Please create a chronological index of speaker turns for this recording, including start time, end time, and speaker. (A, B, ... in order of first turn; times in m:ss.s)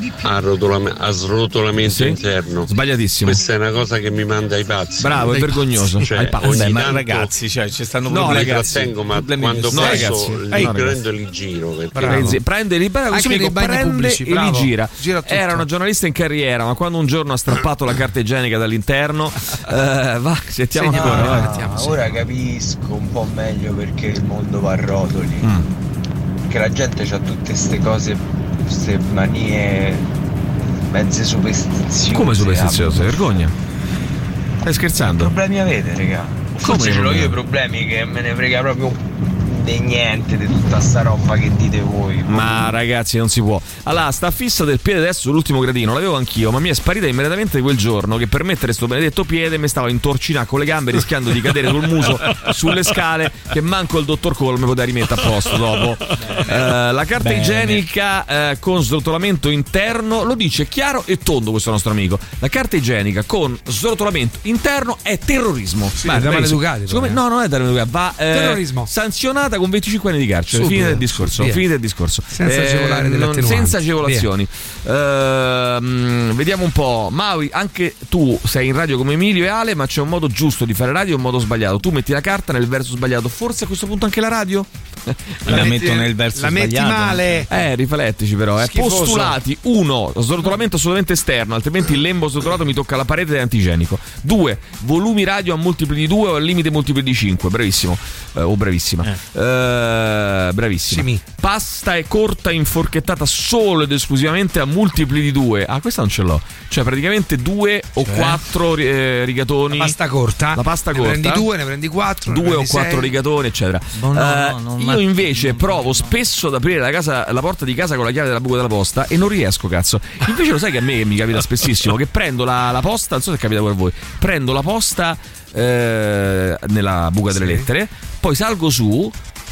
0:00.2-0:02.7 A
0:01.8-0:03.4 B
0:03.2-0:05.4 A
0:05.0-0:06.8 B
0:05.3-0:05.6 C
0:06.0-0:07.3 A
0:06.2-0:10.4 D
0:08.1-0:08.9 B
0:08.2-0:12.3 A
0:09.7-0:11.0 B
0:09.8-0:10.8 C
0:11.9-0:12.4 C
0:12.0-0:21.7 B
0:13.1-0:15.7 C
0:20.7-0:22.0 C
0:21.8-0:25.4 E
0:26.5-0:30.0 E
0:30.9-0:32.9 E
0:32.1-0:33.5 B
0:34.6-0:35.4 B
0:35.2-0:39.0 E
0:36.6-0:37.4 B
0:39.5-0:42.4 E
0:42.2-1:25.7 B
0:56.2-0:56.7 D
0:57.2-0:57.8 D
1:06.0-1:07.2 C
1:08.3-1:08.9 C
1:10.5-1:11.6 C
1:12.3-1:14.3 C
1:25.4-1:27.5 C
1:25.5-1:27.4 D
1:27.5-1:50.0 B
1:28.6-1:29.4 C
1:40.9-1:41.2 C
1:48.0-1:48.4 D
1:49.7-1:53.1 C
1:50.5-1:51.5 B
1:52.3-2:09.2 B
1:54.0-1:56.2 D
2:07.3-2:07.7 C